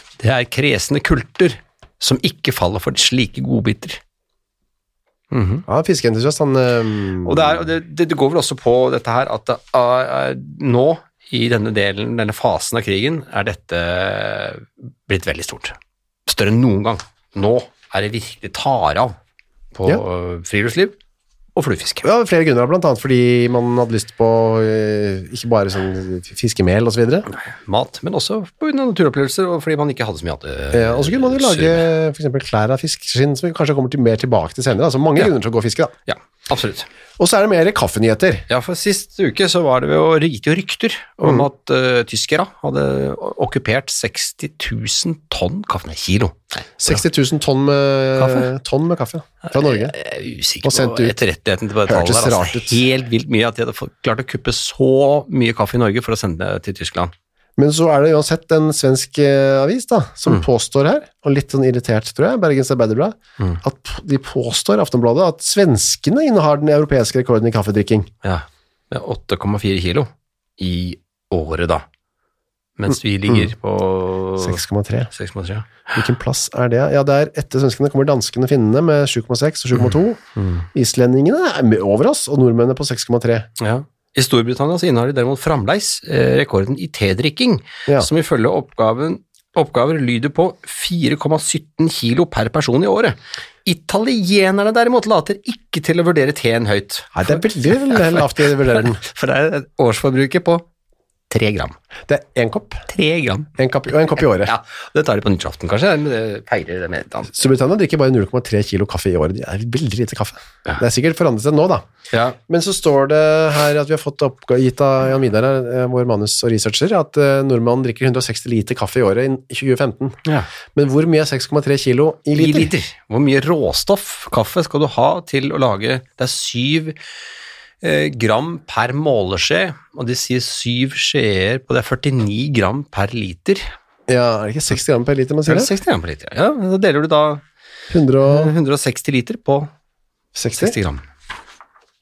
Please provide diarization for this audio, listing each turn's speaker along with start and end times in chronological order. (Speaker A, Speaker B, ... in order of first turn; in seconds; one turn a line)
Speaker A: 0.2-4.0
Speaker A: 5.3-5.6
Speaker B: 5.7-7.6
Speaker A: 7.2-15.7
Speaker A: 16.3-19.1
Speaker A: 19.7-20.9
Speaker A: 21.6-22.0
Speaker B: 22.0-27.3
Speaker A: 27.3-31.9
Speaker B: 30.7-35.9
Speaker A: 36.1-36.9
Speaker B: 37.2-38.4
Speaker A: 38.5-47.0
Speaker B: 41.2-41.5
Speaker B: 46.8-49.9
Speaker A: 48.2-48.5
Speaker A: 49.5-57.1
Speaker B: 50.6-51.1
Speaker B: 51.9-52.8
Speaker B: 57.6-68.1
Speaker A: 68.2-71.8
Speaker A: 72.8-74.6
Speaker B: 74.4-75.1
Speaker A: 75.1-75.9
Speaker B: 75.9-80.2
Speaker A: 80.3-80.7
Speaker B: 80.7-83.5
Speaker A: 83.6-100.6
Speaker B: 97.1-99.0
Speaker A: 101.3-101.8
Speaker B: 102.1-102.8
Speaker A: 102.9-103.5
Speaker B: 103.6-104.5
Speaker A: 104.2-107.4
Speaker B: 107.3-111.8
Speaker A: 112.1-112.4
Speaker B: 112.5-120.2
Speaker B: 120.7-122.7
Speaker A: 122.3-127.0
Speaker A: 127.8-133.6
Speaker B: 134.1-135.7
Speaker A: 135.5-137.4
Speaker B: 137.9-138.5
Speaker A: 138.2-139.7
Speaker B: 140.3-140.8
Speaker A: 140.5-141.0